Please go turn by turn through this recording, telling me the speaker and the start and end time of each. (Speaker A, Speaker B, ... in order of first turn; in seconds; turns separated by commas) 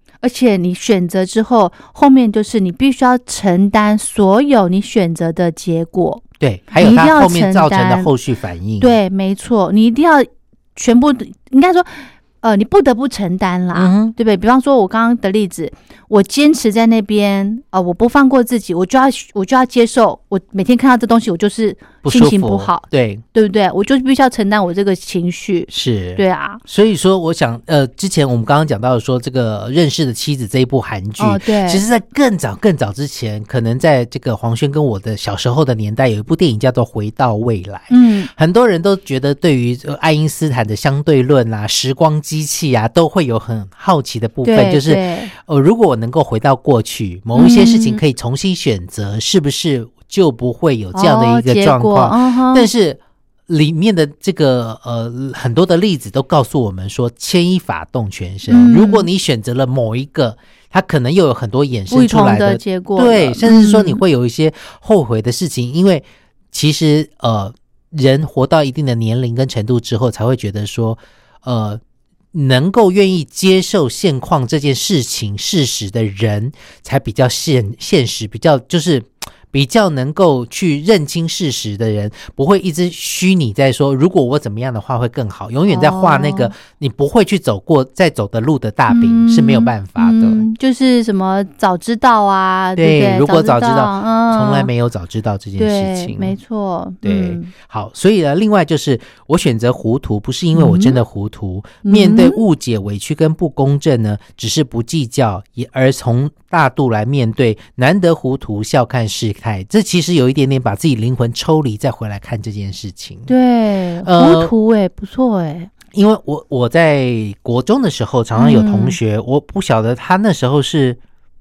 Speaker A: 0.2-6.2, Speaker B: 6.4-9.0, Speaker A: 6.8-8.1, Speaker A: 8.8-26.6, Speaker B: 13.7-14.2, Speaker B: 22.0-23.2, Speaker B: 25.7-71.8, Speaker A: 31.2-31.8, Speaker A: 37.9-38.3, Speaker A: 44.4-45.3, Speaker A: 47.3-48.0, Speaker A: 50.9-52.7, Speaker A: 58.5-59.1, Speaker A: 61.9-64.0, Speaker B: 72.3-90.5, Speaker A: 85.7-86.5, Speaker A: 88.9-94.7, Speaker B: 92.8-96.4, Speaker A: 95.6-97.5, Speaker B: 97.0-113.3, Speaker A: 100.5-101.0, Speaker A: 101.8-102.4, Speaker A: 113.3-115.7, Speaker B: 114.0-114.5, Speaker B: 115.9-121.0, Speaker A: 118.3-119.0